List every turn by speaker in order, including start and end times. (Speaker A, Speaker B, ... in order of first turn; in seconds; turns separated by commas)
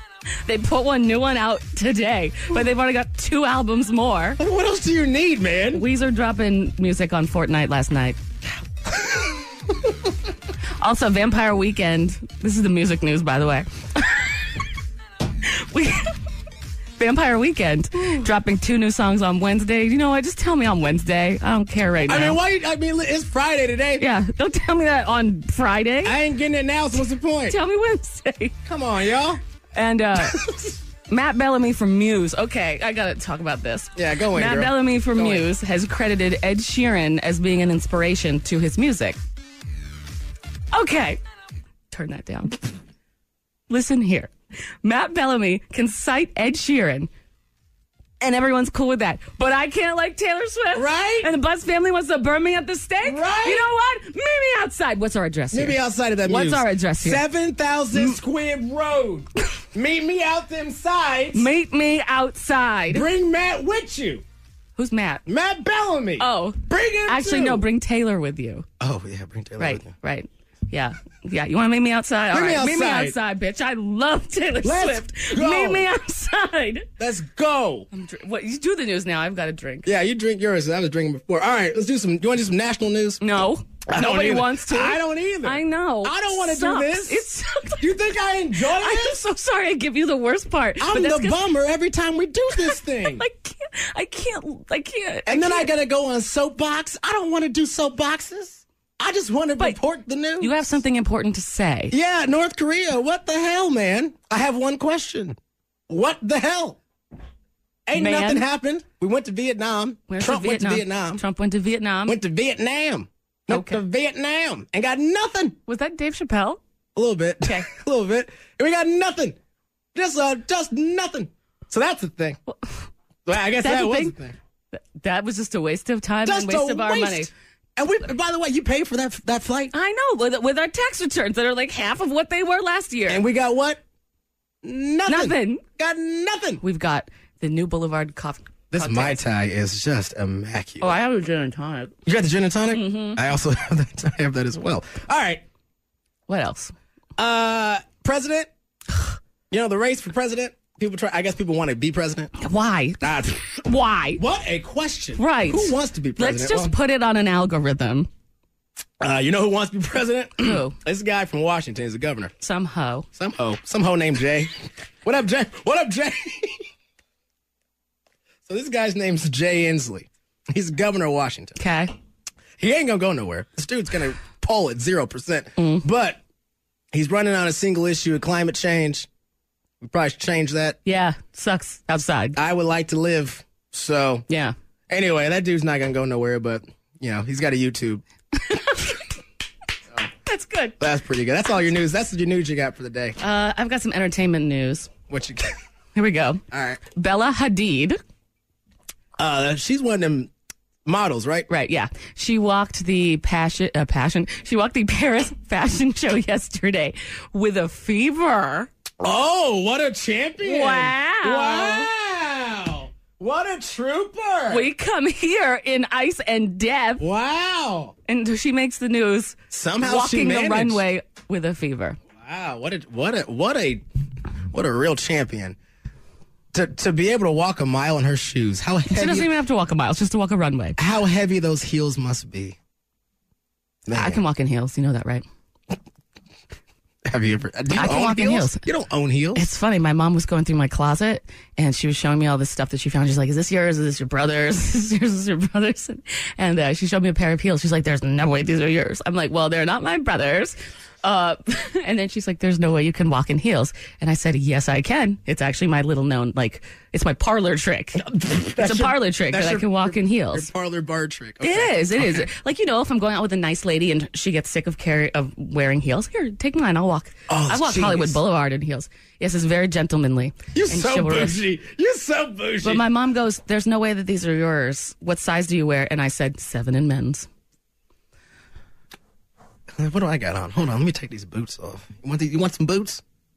Speaker A: 0.4-4.4, Speaker B: 4.4-5.8, Speaker A: 5.7-8.2, Speaker A: 10.8-14.4, Speaker A: 15.4-16.1, Speaker A: 17.0-22.4, Speaker B: 22.0-24.1, Speaker A: 24.0-26.2, Speaker B: 26.0-27.6, Speaker A: 27.5-28.5, Speaker B: 28.6-29.4, Speaker A: 29.7-30.5, Speaker A: 31.1-39.2, Speaker B: 34.0-35.5, Speaker A: 40.7-41.2, Speaker A: 41.9-42.6, Speaker A: 43.7-47.1, Speaker A: 48.2-57.2, Speaker B: 50.7-51.3, Speaker B: 53.0-53.6, Speaker B: 55.5-61.5, Speaker A: 61.3-63.1, Speaker B: 62.9-64.2, Speaker A: 64.8-65.2, Speaker B: 65.2-67.7, Speaker A: 66.2-68.7, Speaker B: 68.8-69.9, Speaker A: 69.6-76.9, Speaker B: 72.3-73.2, Speaker B: 74.6-75.9, Speaker B: 77.0-77.9, Speaker A: 77.9-79.9, Speaker B: 79.8-83.2, Speaker A: 83.2-87.9, Speaker B: 83.9-87.2, Speaker B: 87.8-89.2, Speaker A: 88.6-91.4, Speaker B: 90.8-93.2, Speaker A: 92.5-95.7, Speaker B: 95.3-100.6, Speaker A: 100.4-101.9, Speaker B: 101.9-105.4, Speaker B: 105.9-106.8, Speaker B: 107.9-111.2, Speaker A: 107.9-108.4, Speaker A: 110.1-112.2, Speaker B: 112.1-115.6, Speaker A: 113.5-113.8, Speaker A: 115.7-116.6, Speaker B: 116.9-119.4, Speaker B: 119.9-122.4, Speaker A: 122.5-122.9, Speaker B: 123.2-124.3, Speaker A: 123.6-124.1, Speaker A: 124.7-127.3, Speaker B: 126.2-129.7, Speaker A: 129.7-133.2, Speaker B: 133.1-133.8, Speaker B: 134.6-136.6, Speaker A: 135.1-135.6, Speaker A: 136.6-139.2, Speaker B: 138.7-140.9, Speaker A: 140.8-141.9, Speaker B: 142.0-145.4, Speaker A: 142.7-143.2, Speaker A: 146.3-146.7, Speaker B: 147.2-148.5, Speaker B: 149.5-152.3, Speaker A: 152.4-153.0, Speaker B: 153.0-153.5, Speaker A: 153.6-154.2, Speaker B: 154.2-156.7, Speaker A: 155.2-158.1, Speaker B: 159.0-162.3, Speaker A: 160.4-160.7, Speaker A: 162.4-163.1, Speaker B: 163.1-166.6, Speaker B: 168.5-171.6, Speaker A: 171.6-171.9, Speaker B: 172.6-176.2, Speaker A: 175.6-175.8, Speaker B: 176.9-179.1, Speaker B: 179.8-180.8, Speaker A: 180.8-182.4, Speaker B: 182.3-184.2, Speaker A: 184.3-184.5, Speaker B: 184.9-188.0, Speaker A: 188.4-189.0, Speaker A: 190.2-190.8, Speaker B: 190.8-193.2, Speaker A: 193.2-194.9, Speaker B: 195.1-195.5, Speaker A: 195.9-196.4, Speaker B: 196.5-196.8, Speaker A: 196.9-198.0, Speaker B: 199.2-200.3, Speaker B: 200.8-201.5, Speaker A: 201.5-208.7, Speaker B: 209.0-214.7, Speaker A: 210.4-211.9, Speaker A: 214.5-217.0, Speaker B: 217.0-217.9, Speaker A: 218.1-222.0, Speaker B: 219.5-220.8, Speaker B: 222.2-223.8, Speaker B: 224.5-225.6, Speaker B: 226.5-229.3, Speaker A: 228.9-230.8, Speaker B: 230.8-232.6, Speaker B: 233.8-234.2, Speaker A: 233.9-235.2, Speaker B: 237.1-239.4, Speaker A: 237.7-238.6, Speaker A: 239.3-258.1, Speaker B: 258.0-262.3, Speaker A: 258.6-260.5, Speaker A: 261.4-271.4, Speaker B: 267.3-268.2, Speaker B: 270.5-272.8, Speaker A: 272.6-277.3, Speaker B: 279.7-283.0